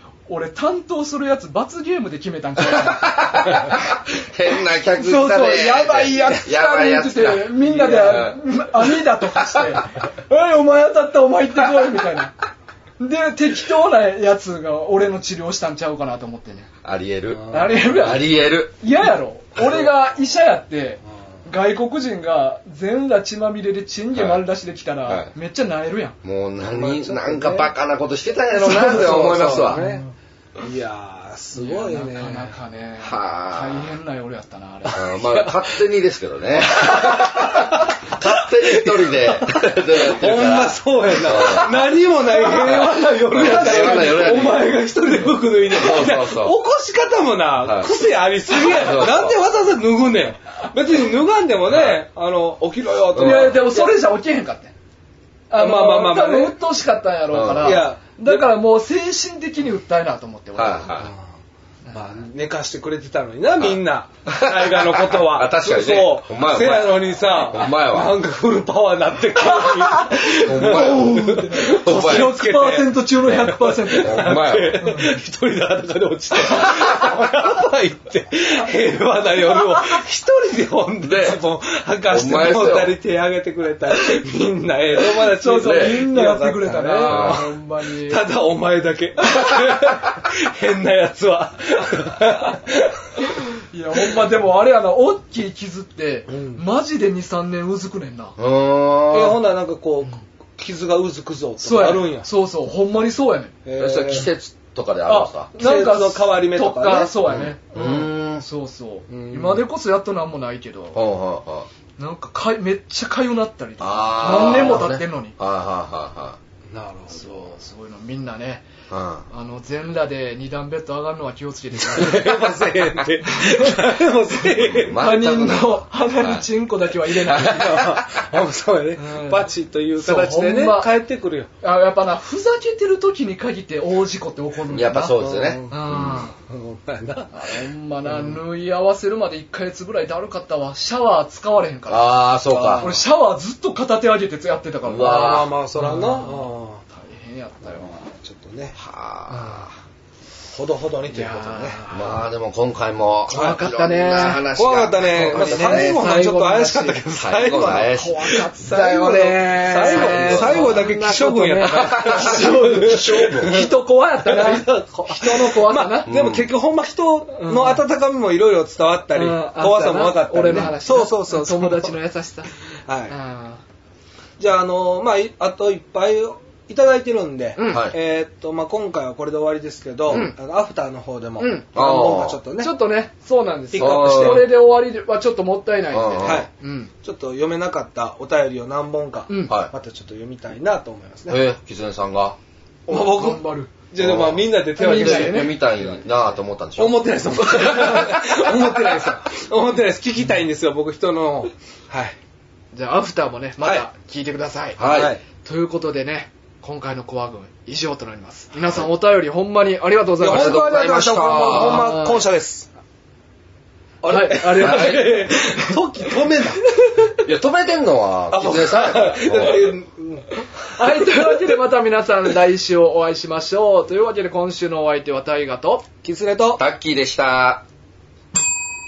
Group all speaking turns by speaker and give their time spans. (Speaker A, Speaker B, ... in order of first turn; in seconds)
Speaker A: 0.3-3.8, 4.9-12.3, 13.0-16.7, 17.5-26.2, 28.6-30.1, 31.5-35.2, 41.3-44.6, 53.2-54.7, 55.5-60.9, 69.5-74.4, 79.5-80.0, 85.2-88.3, 89.3-89.6, 93.2-98.4, 101.6-103.5, 105.1-111.0, 112.0-115.3, 117.1-118.7, 119.3-122.5, 123.3-123.9, 124.9-128.0, 129.0-130.9, 131.6-136.3, 137.3-142.2, 142.8-148.1, 151.1-152.2, 153.3-154.4, 155.0-166.1, 167.4-167.8, 169.1-172.5, 173.1-173.6, 177.6-177.9, 180.1-180.3, 181.4-181.7, 182.6-186.9, 189.3-189.6, 192.9-193.7, 194.8-195.6, 202.7-212.2, 214.1-215.8, 216.8-217.2, 220.6-225.8
Speaker B: 2.7-8.4, 16.8-18.7, 24.1-24.4, 26.2-29.9, 33.0-33.9, 34.9-42.0, 42.5-44.8, 45.7-46.5, 47.6-47.9, 48.6-49.4, 51.7-52.0, 53.1-53.6, 57.3-57.8, 60.6-61.1, 63.6-68.2, 70.3-72.4, 74.0-74.8, 81.0-81.4, 82.1-83.0, 85.6-85.9, 87.1-87.5, 98.4-99.4, 103.8-105.5, 107.3-108.4, 110.9-111.7, 113.8-116.4, 118.9-119.3, 124.7-126.5, 127.3-128.2, 134.7-136.2, 141.9-142.9, 144.9-145.5, 148.8-149.7, 151.9-156.0, 157.2-158.4, 159.6-160.8, 161.7-163.7, 166.1-166.5, 177.7-177.9, 181.8-182.4, 183.8-184.5, 185.9-186.4, 191.3-192.4, 194.0-198.7, 204.8-205.1, 210.2-211.9, 214.6-215.2, 217.2-219.7, 226.6-227.6
Speaker C: 17.3-17.8, 26.6-27.7, 28.6-30.1, 30.6-32.5, 34.9-35.6, 36.7-53.9, 55.6-56.6, 57.6-58.5, 61.9-93.2, 96.3-96.6, 99.1-102.3, 103.7-104.3, 105.6-107.1, 109.1-109.6, 114.5-114.9, 116.7-117.5, 121.8-125.0, 127.2-131.5, 135.2-137.3, 138.1-138.4, 142.5-143.0, 145.0-146.8, 147.9-148.8, 149.3-149.7, 150.5-151.8, 153.3-153.6, 154.5-171.9, 172.9-173.2, 174.4-182.7, 183.7-184.5, 186.2-186.5, 187.0-191.4, 192.9-196.0, 196.8-202.2, 204.8-205.2, 210.2-212.7, 214.0-216.7, 218.3-220.3, 220.9-221.3, 226.0-226.6